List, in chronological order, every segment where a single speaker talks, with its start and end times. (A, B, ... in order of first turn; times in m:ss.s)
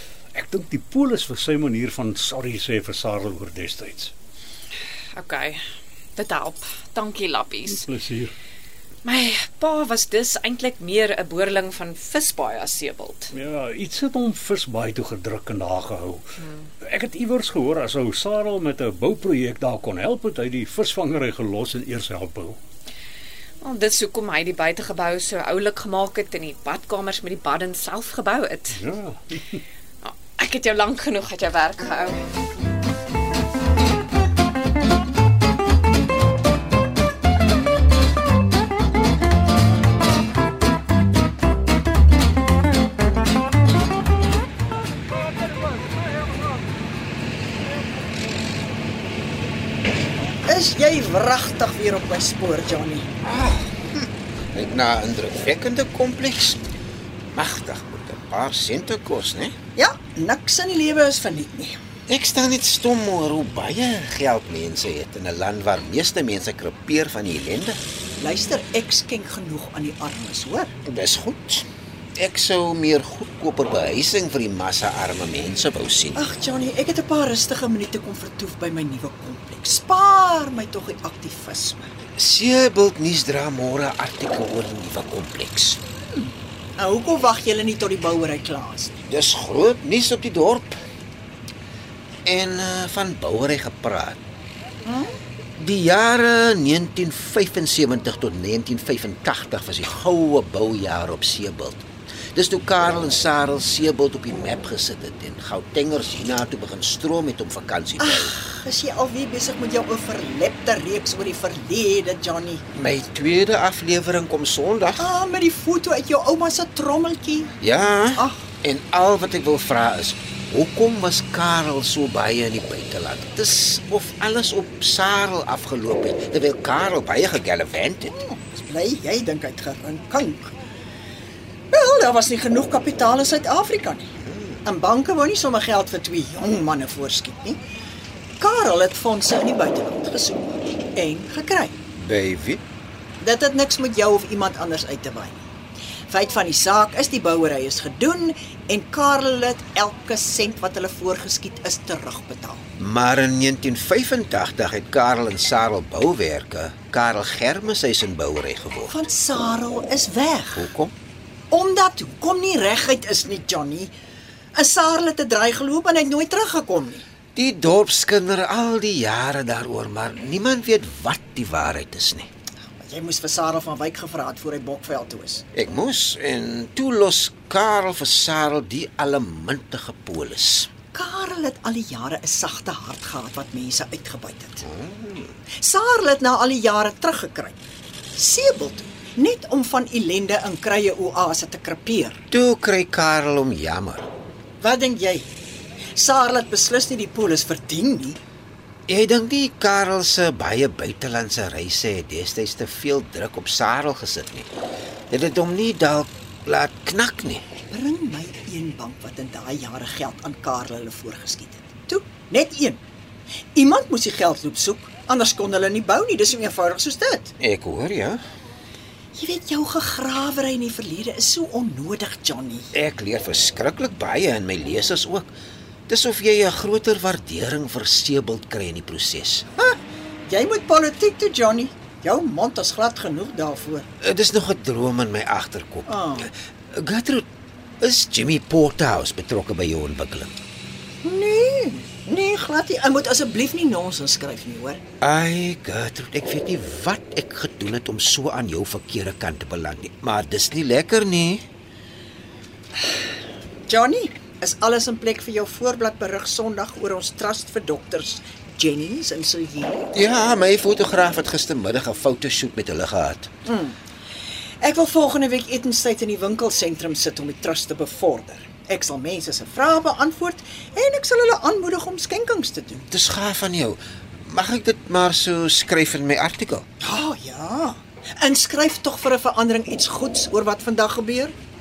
0:00.3-0:04.1 A
0:05.1-0:05.6 B
0:06.1-0:07.8 B
0:07.7-0:08.3 A
0:09.0-0:13.3 B
0:13.3-0:16.2 A
0:16.4-0:16.7 B
0:16.8-0:22.6 A
0:23.6-0:28.8 B
0:28.7-0:29.6 A
0:30.0-0:32.2 B
0:50.4-0:53.1 C
0:53.2-0:56.6 D
0:57.3-0:59.5 D
0:59.7-1:01.8 C
1:02.1-1:07.8 D
1:08.2-1:10.7 C
1:10.8-1:16.2 D
1:16.1-1:21.9 C
1:22.2-1:25.8 D
1:26.2-1:29.0 C
1:29.1-1:30.8 D
1:32.2-1:34.2 D
1:34.8-1:35.2 C
1:35.6-1:48.4 D
1:48.0-1:52.6 C
1:52.7-1:55.1 D
1:55.0-1:57.5 C
1:57.6-2:08.2 D
1:58.2-1:58.5 C
2:08.1-2:10.5 C
2:11.7-2:14.1 C
2:14.2-2:14.6 D
2:14.6-2:17.6 C
2:18.4-2:21.8 C
2:22.0-2:22.6 D
2:23.2-2:25.5 C
2:26.1-2:32.6 C
2:32.8-2:38.9 D
2:38.9-2:40.7 C
2:40.6-2:40.9 D
2:41.5-2:43.9 C
2:44.5-2:47.0 C
2:47.3-2:52.3 D
2:52.7-2:55.4 C
2:55.5-3:00.7 D
3:00.9-3:04.6 C
3:04.6-3:05.4 D
3:05.5-3:07.6 C
3:08.1-3:12.2 C
3:12.3-3:14.1 D
3:14.6-3:15.3 C
3:16.0-3:18.2 C
3:18.9-3:24.5 D
3:25.1-3:27.4 D
3:27.7-3:32.8 C
3:33.5-3:37.3 C
3:37.4-3:38.2 D
3:39.1-3:42.7 C
3:42.7-3:45.3 D
3:45.9-3:49.4 D
3:50.3-3:53.9 C
3:54.0-3:57.3 D
3:55.8-3:56.3 C
3:57.8-4:00.3 D
4:01.0-4:04.8 C
4:05.0-4:11.4 D
4:13.7-4:19.9 C
4:19.9-4:23.3 D
4:23.4-4:23.8 C
4:24.6-4:32.9 C
4:32.9-4:36.6 D
4:36.8-4:41.3 C